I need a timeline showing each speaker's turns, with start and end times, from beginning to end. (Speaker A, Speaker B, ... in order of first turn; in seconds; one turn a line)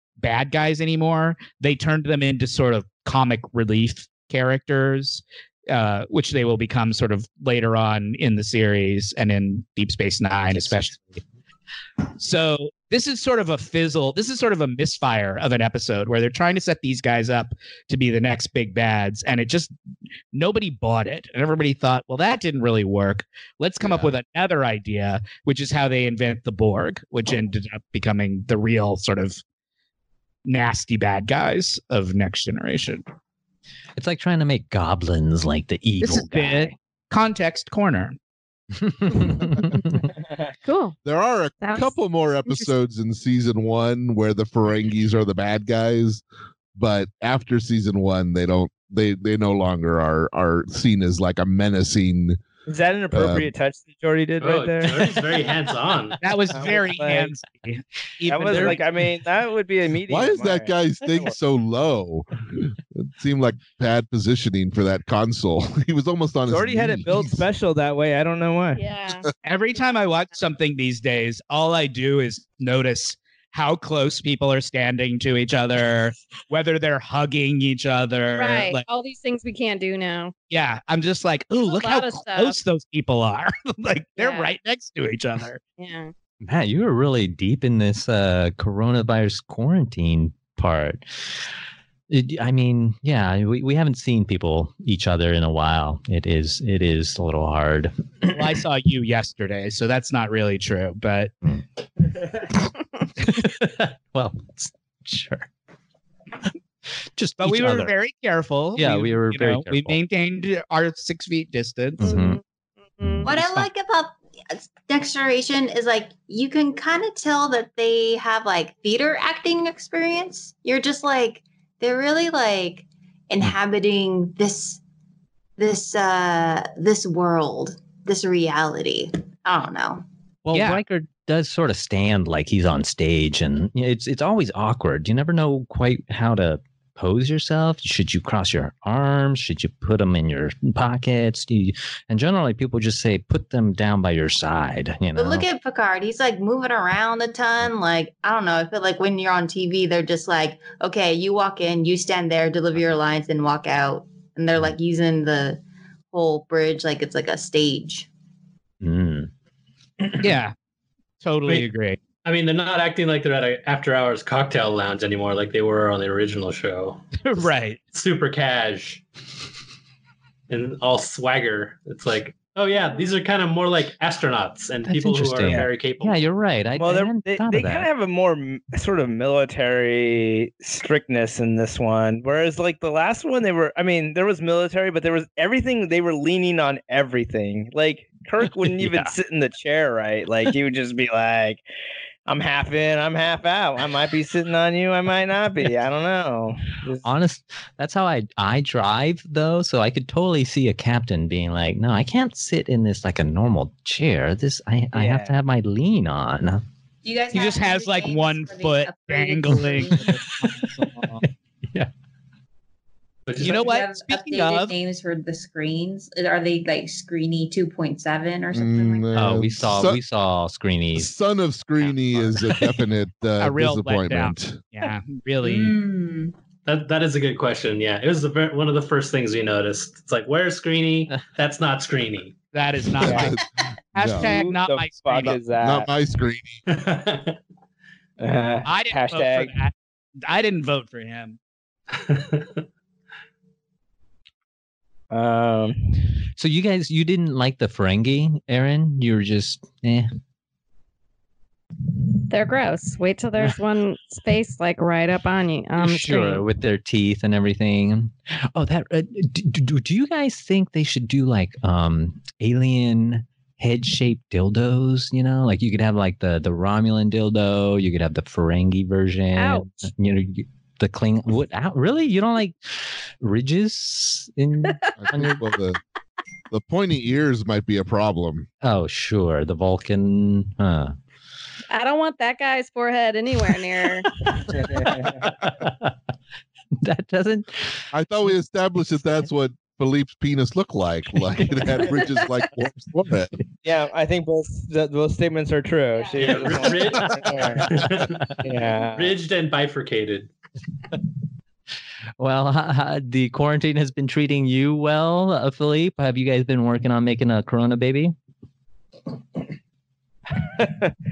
Speaker A: 0.2-11.2
Speaker B: 10.5-11.0
Speaker A: 12.2-19.7
Speaker A: 20.3-29.4
Speaker B: 23.8-24.1
Speaker A: 30.5-33.0
Speaker B: 34.0-36.7
Speaker A: 36.0-38.2
Speaker B: 38.8-40.1
Speaker C: 40.6-41.0
Speaker D: 41.0-46.2
Speaker C: 41.6-42.7
Speaker D: 46.8-52.4
Speaker E: 52.7-55.3
Speaker D: 53.1-53.5
Speaker F: 54.4-56.2
Speaker A: 56.2-58.8
Speaker E: 56.5-57.3
Speaker E: 58.3-61.1
Speaker B: 58.4-58.8
Speaker D: 60.1-67.4
Speaker E: 66.5-68.8
Speaker C: 68.8-69.3
Speaker A: 69.4-78.9
Speaker C: 78.3-80.3
Speaker A: 80.5-85.6
Speaker C: 81.6-82.6
Speaker C: 84.2-84.5
Speaker C: 85.8-86.1
Speaker B: 86.4-91.5
Speaker B: 92.1-98.3
Speaker A: 98.3-101.3
Speaker B: 103.2-105.5
Speaker B: 107.2-107.9
Speaker A: 107.4-112.1
Speaker B: 108.8-110.0
Speaker B: 112.0-112.4
Speaker C: 112.0-112.4
Speaker C: 113.0-113.3
Speaker B: 113.0-113.3
Speaker G: 113.2-124.8
Speaker A: 113.3-113.7
Speaker G: 125.6-130.0
Speaker B: 130.4-145.5
Speaker A: 130.5-130.8
Speaker G: 145.2-158.1
Speaker B: 158.8-159.3
Speaker A: 160.2-160.5
Speaker A: 161.2-162.0
Speaker F: 162.2-167.1
Speaker A: 167.2-167.8
Speaker F: 167.9-169.0
Speaker F: 170.5-176.3
Speaker B: 174.9-177.9
Speaker E: 175.5-175.7
Speaker E: 176.8-191.6
Speaker B: 188.4-189.2
Speaker E: 192.3-197.1
Speaker B: 197.0-206.6
Speaker E: 204.9-205.3
Speaker G: 207.0-210.2
Speaker A: 207.3-210.0
Speaker B: 210.0-210.9
Speaker F: 213.3-213.7
Speaker G: 213.4-219.1
Speaker A: 213.4-214.7
Speaker D: 218.5-220.0
Speaker B: 219.2-221.1
Speaker D: 220.9-224.6
Speaker A: 223.4-225.8
Speaker G: 225.4-226.3
Speaker F: 226.7-232.4
Speaker A: 232.5-233.4
Speaker D: 233.0-233.4
Speaker E: 233.1-233.3
Speaker A: 233.9-235.4
Speaker D: 234.0-234.3
Speaker E: 234.1-235.9
Speaker D: 235.5-236.6
Speaker F: 236.7-237.4
Speaker E: 238.2-239.6
Speaker A: 238.7-241.4
Speaker F: 241.9-242.6
Speaker E: 245.1-246.1
Speaker B: 246.3-250.1
Speaker C: 252.0-256.5
Speaker B: 255.8-275.4
Speaker C: 269.4-269.9
Speaker C: 274.6-275.0
Speaker D: 275.0-275.8
Speaker D: 276.5-278.5
Speaker B: 278.6-280.9
Speaker C: 281.7-284.1
Speaker B: 284.1-285.9
Speaker E: 284.5-285.3
Speaker B: 286.8-287.9
Speaker D: 287.9-293.3
Speaker B: 291.4-291.7
Speaker E: 293.6-297.7
Speaker F: 296.2-300.3
Speaker E: 298.4-299.2
Speaker B: 302.2-308.1
Speaker E: 310.4-310.9